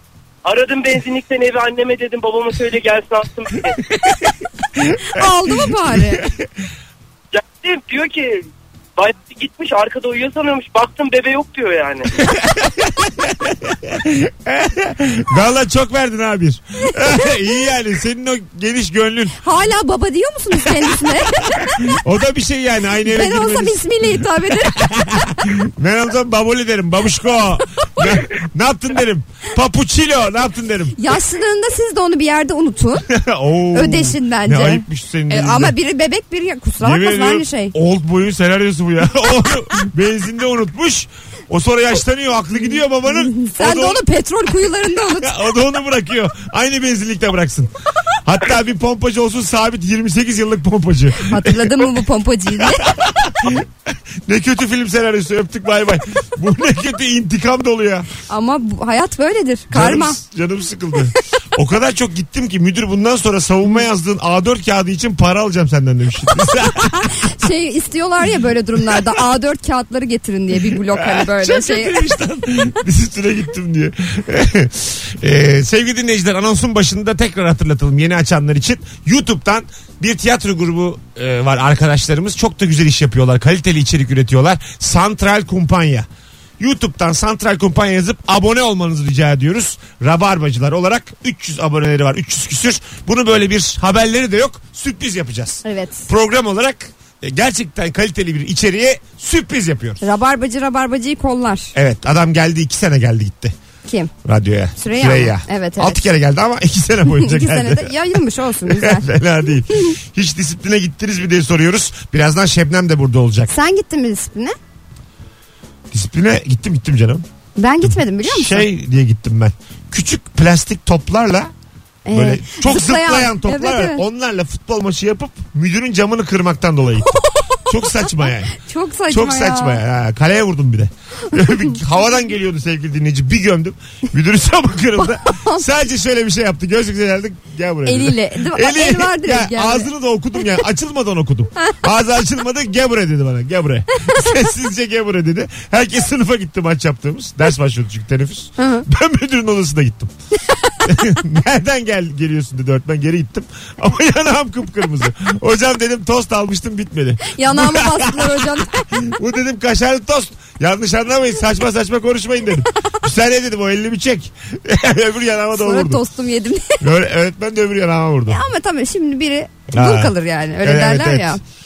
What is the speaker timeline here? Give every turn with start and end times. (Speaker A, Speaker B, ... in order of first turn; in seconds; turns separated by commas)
Speaker A: 0.5-3.8, Speaker B: 5.1-6.2, Speaker C: 5.7-6.3, Speaker A: 7.3-12.1, Speaker C: 12.2-19.4, Speaker B: 19.4-21.9, Speaker C: 20.8-31.0, Speaker B: 23.1-24.8, Speaker B: 31.0-33.1, Speaker C: 33.1-35.8, Speaker B: 33.7-37.7, Speaker C: 36.8-44.0, Speaker B: 43.1-45.4, Speaker C: 45.1-47.7, Speaker C: 48.2-51.9, Speaker B: 51.2-52.9, Speaker C: 52.6-53.7, Speaker C: 54.3-58.1, Speaker B: 58.3-60.2, Speaker C: 59.7-67.3, Speaker B: 67.1-72.0, Speaker C: 70.7-86.1, Speaker C: 86.6-100.0, Speaker B: 95.6-96.1, Speaker B: 100.0-101.7, Speaker C: 101.8-103.5, Speaker C: 104.2-107.9, Speaker B: 104.8-106.0, Speaker B: 107.2-109.1, Speaker C: 108.7-113.5, Speaker B: 113.5-114.6, Speaker C: 115.9-117.2, Speaker B: 117.6-118.7, Speaker C: 117.8-121.5, Speaker B: 122.1-124.0, Speaker C: 122.1-128.6, Speaker B: 127.1-129.8, Speaker C: 129.1-150.1, Speaker B: 135.0-135.6, Speaker B: 137.9-139.9, Speaker B: 148.6-148.9, Speaker C: 150.8-166.0, Speaker B: 157.3-158.9, Speaker B: 165.6-166.8, Speaker C: 166.8-168.4, Speaker B: 168.3-171.4, Speaker C: 169.7-171.4